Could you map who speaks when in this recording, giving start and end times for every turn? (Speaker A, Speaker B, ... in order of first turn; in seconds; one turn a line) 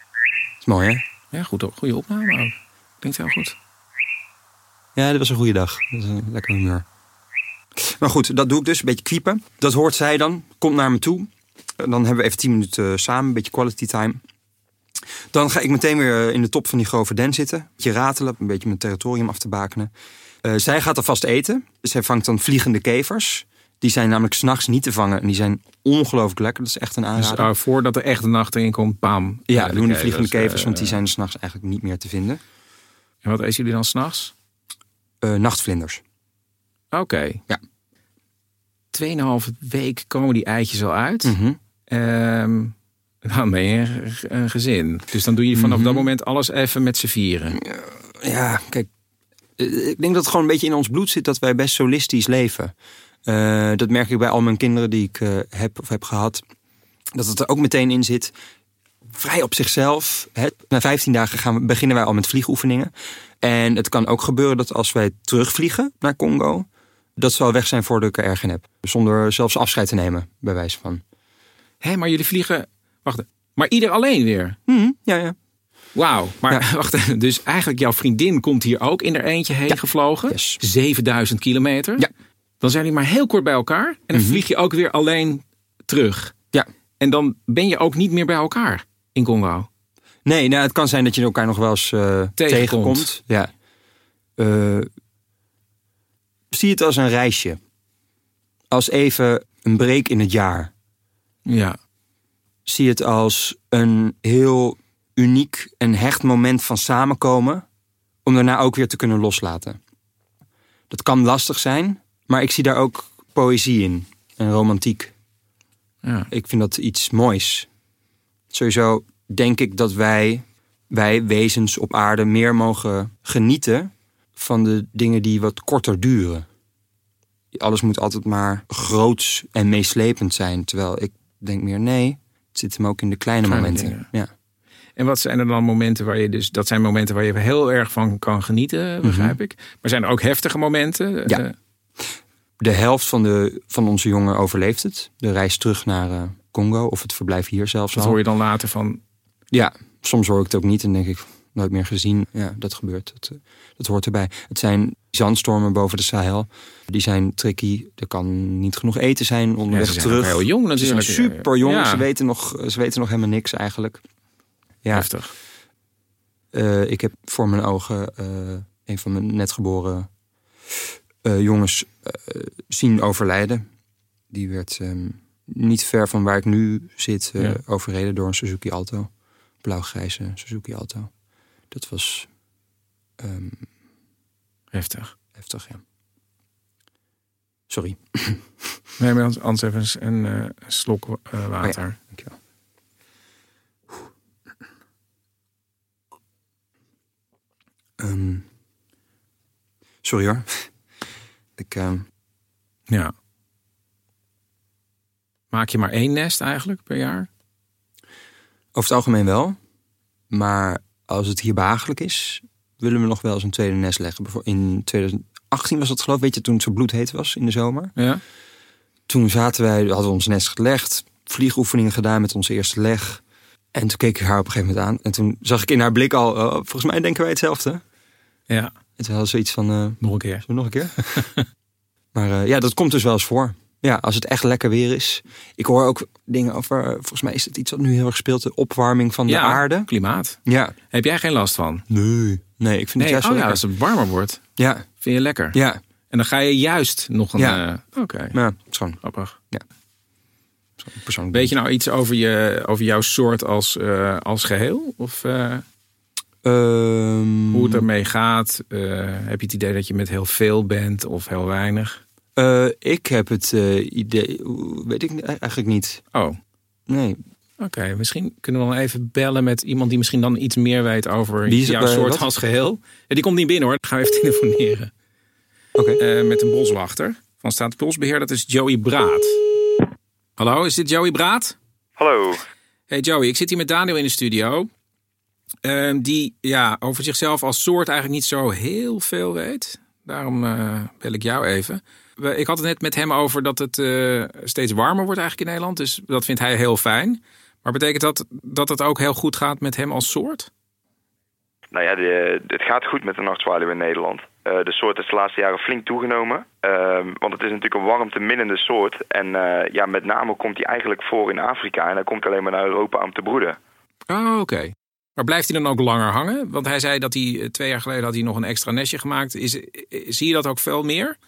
Speaker A: 0.6-1.0
Speaker B: 1.3-3.6
Speaker A: 5.0-6.8
Speaker A: 7.8-14.2
Speaker A: 15.3-19.9
Speaker A: 20.4-27.5
Speaker B: 27.2-31.0
Speaker A: 29.5-32.4
Speaker B: 33.2-34.3
Speaker A: 35.2-36.0
Speaker B: 36.9-37.4
Speaker B: 38.9-41.4
Speaker A: 41.2-41.6
Speaker B: 41.9-47.6
Speaker A: 45.5-46.1
Speaker A: 47.5-48.9
Speaker A: 49.6-52.7
Speaker A: 53.3-56.4
Speaker A: 57.1-58.3
Speaker A: 59.1-66.7
Speaker A: 67.2-71.0
Speaker B: 71.8-74.6
Speaker A: 74.7-75.3
Speaker B: 76.0-82.1
Speaker A: 80.3-80.6
Speaker B: 82.6-86.3
Speaker A: 84.1-84.4
Speaker B: 87.0-89.7
Speaker A: 90.2-93.5
Speaker B: 92.4-93.1
Speaker A: 94.4-94.9
Speaker A: 96.5-97.6
Speaker A: 98.7-100.7
Speaker B: 101.5-101.8
Speaker A: 102.7-107.7
Speaker A: 108.2-109.8
Speaker A: 110.9-115.1
Speaker B: 116.0-116.3
Speaker A: 116.3-117.7
Speaker A: 118.5-126.5
Speaker A: 127.5-134.3
Speaker B: 133.4-134.1
Speaker B: 135.0-141.6
Speaker A: 139.0-139.4
Speaker A: 142.6-148.2
Speaker B: 147.9-149.0
Speaker A: 149.5-164.0
Speaker B: 159.7-162.1
Speaker A: 164.8-165.1
Speaker B: 164.9-165.3
Speaker A: 166.5-170.1
Speaker A: 171.2-173.7
Speaker A: 174.3-179.1
Speaker A: 179.6-181.1
Speaker A: 181.7-182.3
Speaker A: 183.2-183.7
Speaker B: 184.7-185.1
Speaker A: 185.4-185.8
Speaker A: 187.7-188.5
Speaker B: 189.0-192.0
Speaker A: 191.6-192.4
Speaker A: 198.0-198.5
Speaker A: 200.0-200.7
Speaker A: 201.6-202.1
Speaker B: 202.9-203.1
Speaker B: 205.5-207.3
Speaker A: 208.8-209.6
Speaker A: 210.3-217.9
Speaker B: 218.0-218.2
Speaker A: 219.1-223.2
Speaker A: 223.7-227.8
Speaker A: 229.0-231.3
Speaker B: 230.0-230.4
Speaker B: 231.0-231.4
Speaker A: 232.1-239.9
Speaker B: 239.3-241.8
Speaker A: 240.4-240.8
Speaker A: 241.9-243.6
Speaker B: 243.0-244.4
Speaker A: 244.6-244.9
Speaker B: 245.0-245.6
Speaker A: 245.5-245.8
Speaker B: 246.1-248.4
Speaker A: 247.4-247.6
Speaker A: 248.3-249.0
Speaker B: 249.0-249.4
Speaker A: 250.8-251.5
Speaker B: 251.3-255.7
Speaker A: 256.4-257.9
Speaker B: 257.5-262.0
Speaker A: 262.4-266.0
Speaker B: 266.1-266.4
Speaker A: 266.9-267.2
Speaker B: 267.6-274.9
Speaker A: 271.5-272.3
Speaker B: 276.0-279.5
Speaker B: 280.4-281.6
Speaker C: 282.0-282.4
Speaker B: 282.9-284.7
Speaker B: 285.6-300.5
Speaker C: 301.7-313.6
Speaker B: 314.1-321.2